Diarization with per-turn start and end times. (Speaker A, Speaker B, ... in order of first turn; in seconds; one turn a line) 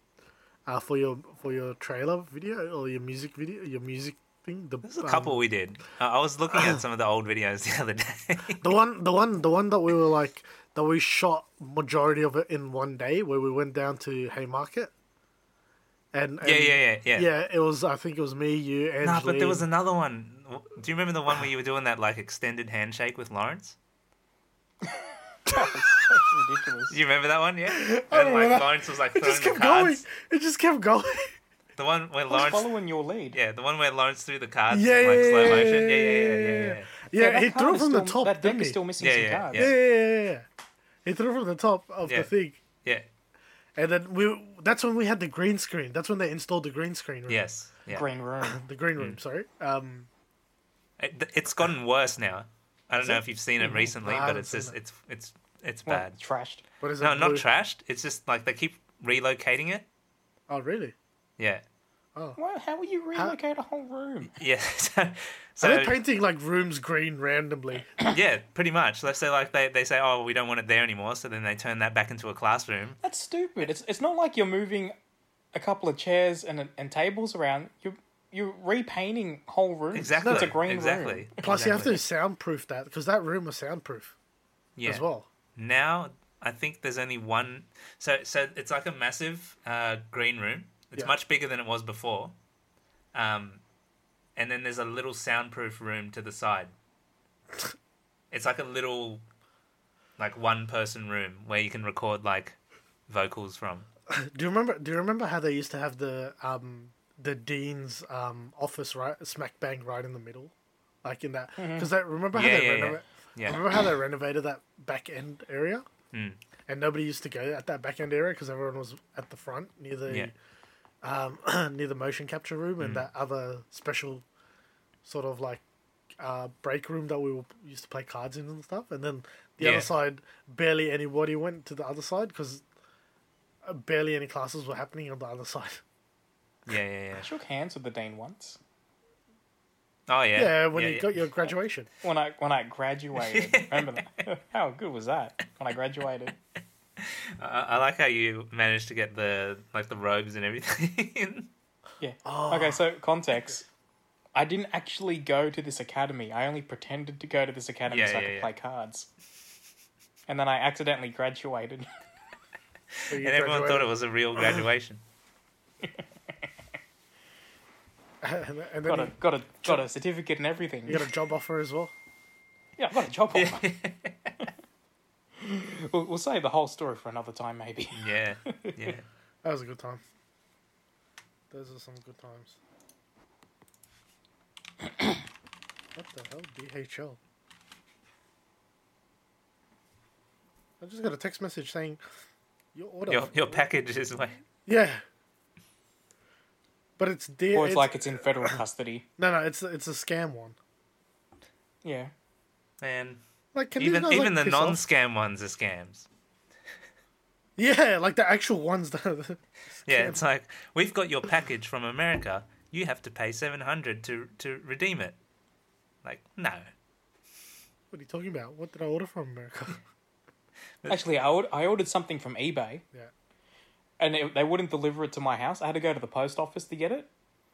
Speaker A: 0.7-5.4
Speaker B: 4.8-8.6
Speaker A: 8.6-14.9
Speaker A: 16.1-19.6
Speaker B: 16.4-17.3
Speaker B: 19.0-23.8
Speaker C: 25.0-27.0
Speaker B: 26.9-30.0
Speaker A: 27.7-31.3
Speaker B: 31.8-32.7
Speaker C: 32.3-33.4
Speaker B: 33.3-36.9
Speaker A: 34.7-38.8
Speaker C: 37.1-39.7
Speaker B: 39.0-39.8
Speaker A: 39.5-40.5
Speaker A: 41.0-42.6
Speaker A: 43.8-47.4
Speaker B: 47.3-48.0
Speaker C: 47.9-48.6
Speaker A: 48.4-50.1
Speaker B: 51.0-56.1
Speaker A: 53.0-54.8
Speaker C: 53.6-53.9
Speaker C: 55.9-56.6
Speaker A: 56.8-57.5
Speaker B: 57.0-59.9
Speaker A: 60.5-61.0
Speaker C: 62.4-64.3
Speaker B: 64.4-66.0
Speaker A: 65.6-68.0
Speaker B: 68.0-73.0
Speaker C: 73.0-75.0
Speaker C: 75.5-81.4
Speaker B: 79.9-82.0
Speaker A: 80.2-80.6
Speaker A: 81.4-84.1
Speaker B: 84.8-85.0
Speaker A: 84.8-85.3
Speaker B: 85.6-92.3
Speaker B: 93.1-93.6
Speaker B: 94.4-96.7
Speaker B: 98.3-99.2
Speaker B: 100.2-102.6
Speaker B: 103.1-103.9
Speaker A: 104.1-110.5
Speaker A: 111.0-115.9
Speaker C: 111.6-111.9
Speaker B: 112.3-113.8
Speaker B: 116.1-116.4
Speaker A: 116.7-120.3
Speaker A: 121.0-124.2
Speaker B: 122.8-123.1
Speaker A: 125.0-125.6
Speaker A: 126.2-132.6
Speaker B: 129.6-129.9
Speaker A: 133.7-135.8
Speaker B: 136.7-137.3
Speaker C: 137.2-138.6
Speaker B: 140.1-141.2
Speaker A: 140.3-141.9
Speaker C: 142.0-146.3
Speaker B: 143.3-144.0
Speaker B: 147.0-151.5
Speaker C: 152.0-153.7
Speaker A: 152.2-152.8
Speaker C: 154.3-159.1
Speaker B: 157.9-158.5
Speaker C: 160.3-161.9
Speaker A: 163.1-163.9
Speaker B: 163.1-165.0
Speaker A: 168.2-169.8
Speaker C: 168.9-171.1
Speaker A: 170.9-171.9
Speaker C: 172.8-173.7
Speaker B: 173.3-174.3
Speaker C: 175.4-178.9
Speaker B: 177.9-179.1
Speaker A: 179.4-180.0
Speaker A: 181.5-182.6
Speaker A: 185.9-187.2
Speaker A: 190.8-192.0
Speaker A: 192.8-193.6
Speaker B: 193.1-194.4
Speaker A: 194.7-195.0
Speaker A: 197.0-198.6
Speaker C: 197.5-199.1
Speaker A: 199.2-200.6
Speaker C: 201.8-202.1
Speaker B: 202.8-203.2
Speaker A: 203.5-204.8
Speaker B: 203.8-206.1
Speaker A: 207.6-210.2
Speaker B: 209.9-215.2
Speaker B: 216.0-216.7
Speaker A: 217.9-219.8
Speaker C: 220.9-222.8
Speaker C: 224.0-227.1